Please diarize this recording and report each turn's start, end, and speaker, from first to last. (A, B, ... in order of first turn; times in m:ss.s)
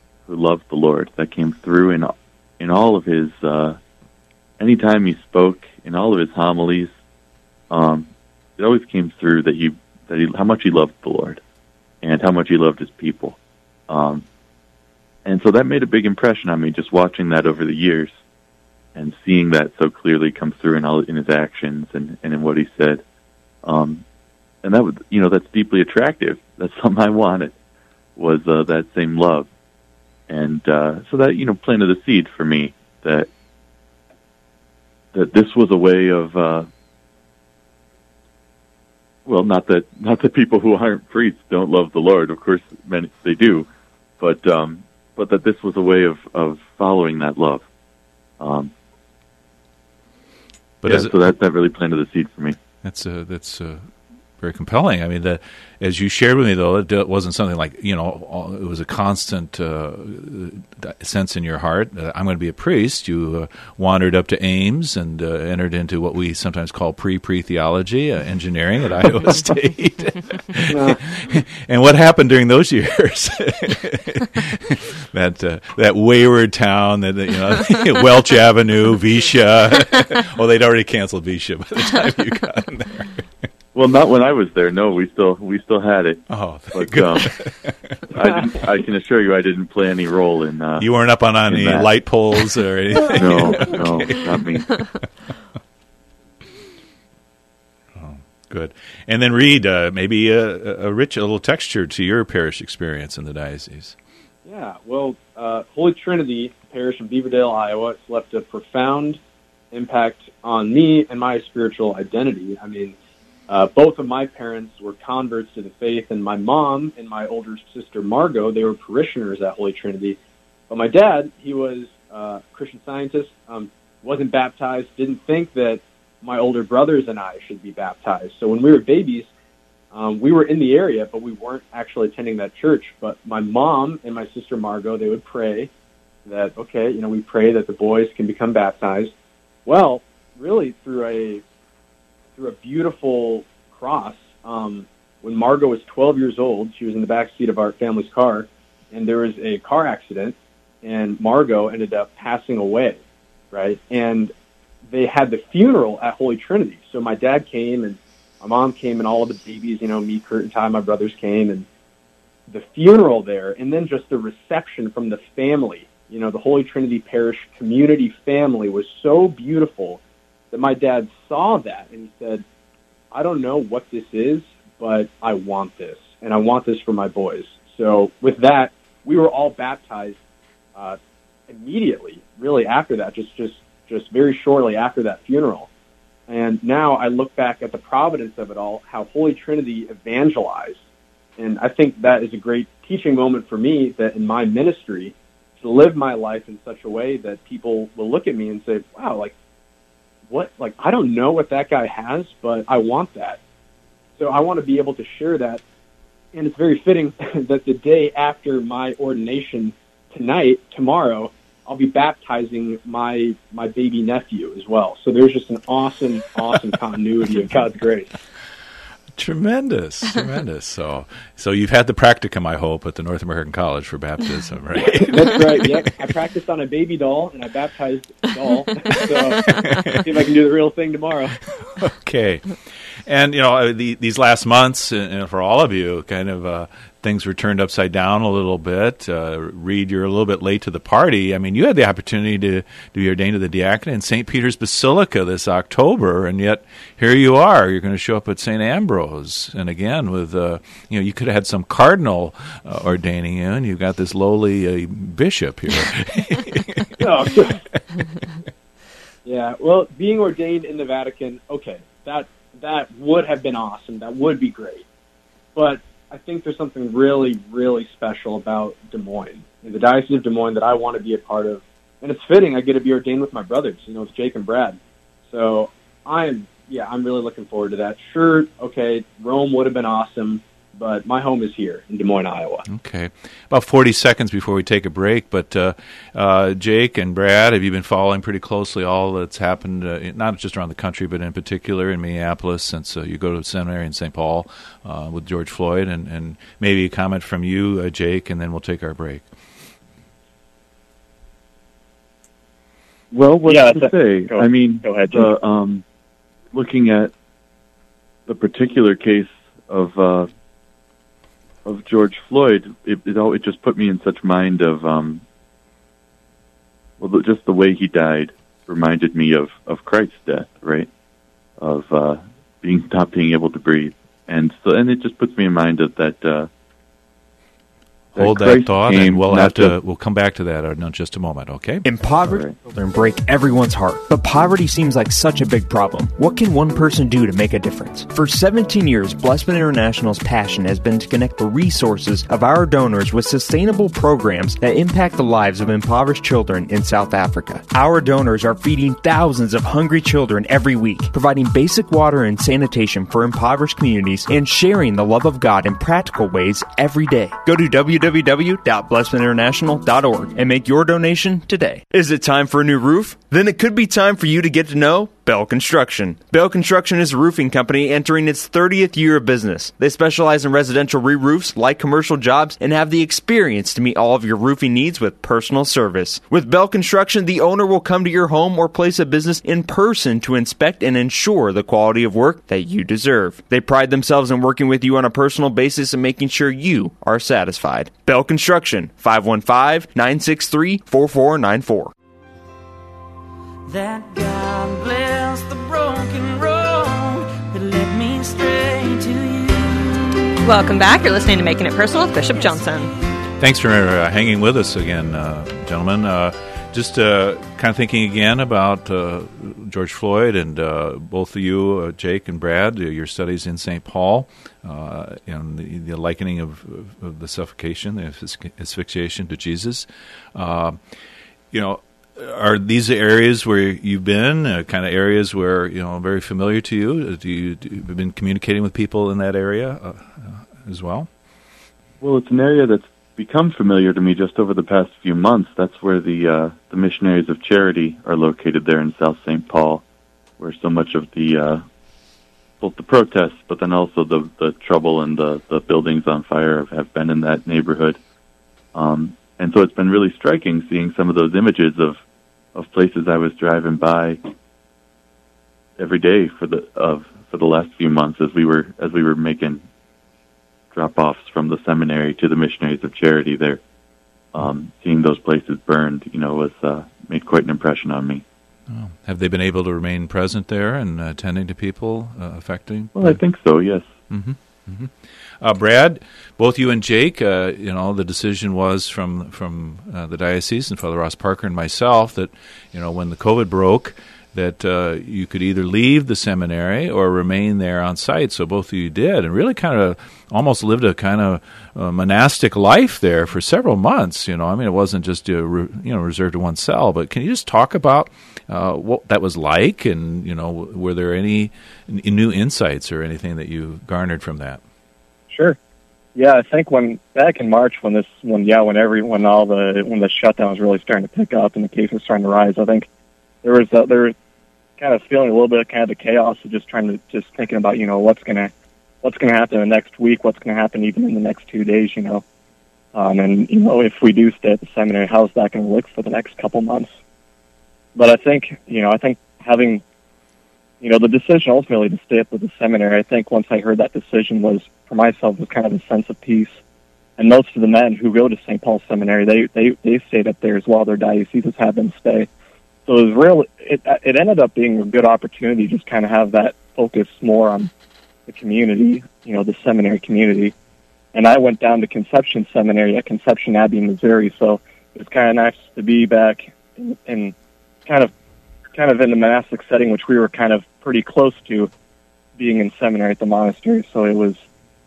0:00.3-0:03.8 A
0:04.6-0:06.9 A
0:07.7-0:11.4 A
0:12.0-0:13.4 A
0:13.9-0:14.2 A
0:15.2-0:18.1 A
0:18.9-0:23.0 A
0:23.6-0:24.0 A
0:24.6-0:27.6 A
0:28.2-0:29.5 A
0:30.3-0:33.3 A
0:35.1-0:36.7 A
0:39.2-0:43.7 A
0:44.2-0:47.6 A
0:48.4-0:48.7 A
0:50.8-0:51.2 B
0:50.8-0:52.6 A
0:52.8-1:23.2 B
1:10.7-1:11.0 C
1:23.7-1:27.4 A
1:26.3-1:27.9 B
1:28.1-1:30.9 A
1:30.8-1:34.8 B
1:31.5-1:31.9 A
1:33.0-1:34.8 A
1:38.0-1:44.0 B
1:44.4-1:49.2 C
1:49.7-1:52.9 C
1:53.5-2:00.2 C
2:00.7-2:09.3 C
2:09.9-2:15.7 C
2:16.2-2:19.1 C
2:19.6-2:21.4 C
2:22.4-2:33.0 C
2:33.5-2:34.3 C
2:34.9-2:41.6 C
2:42.5-2:52.4 C
2:53.1-3:00.2 C
3:00.7-3:05.7 C
3:06.3-3:10.8 C
3:11.4-3:19.3 C
3:20.3-3:23.4 C
3:24.2-3:25.6 C
3:26.3-3:38.1 C
3:39.2-3:45.6 B
3:44.7-3:51.4 C
3:49.4-3:50.2 B
3:51.5-4:16.9 B
4:17.0-4:17.6 C
4:19.2-4:24.8 C
4:25.5-4:42.6 C
4:42.7-4:59.2 B
5:03.1-5:05.8 A
5:03.5-5:05.3 D
5:06.5-5:07.1 A
5:08.3-5:10.3 A
5:11.6-5:15.2 A
5:17.0-5:20.9 A
5:21.6-5:26.5 A
5:28.1-5:31.8 B
5:28.2-5:29.7 A
5:31.8-6:31.9 E
5:32.2-5:32.6 A
6:33.7-6:40.3 F
6:40.4-6:42.9 G
6:42.4-6:42.9 F
6:43.4-7:00.8 B
7:01.5-7:11.1 B
7:12.0-7:19.8 A
7:20.4-7:21.6 A
7:22.6-7:28.0 A
7:28.7-7:32.0 A
7:32.5-7:34.3 A
7:35.8-7:39.6 A
7:40.7-7:43.6 A
7:44.3-7:48.2 A
7:48.7-7:53.2 B
7:52.9-7:53.9 A
7:54.1-8:24.6 B
8:25.3-8:25.6 D
8:26.1-8:32.9 D
8:33.4-8:34.1 D
8:34.8-8:42.2 D
8:42.9-8:46.9 D
8:47.9-8:49.8 D
8:50.8-8:56.5 D
8:57.2-9:02.3 D
9:02.8-9:07.7 D
9:08.3-9:10.5 D
9:11.1-9:17.3 D
9:17.8-9:18.1 D
9:18.7-9:21.7 D
9:22.4-9:24.4 D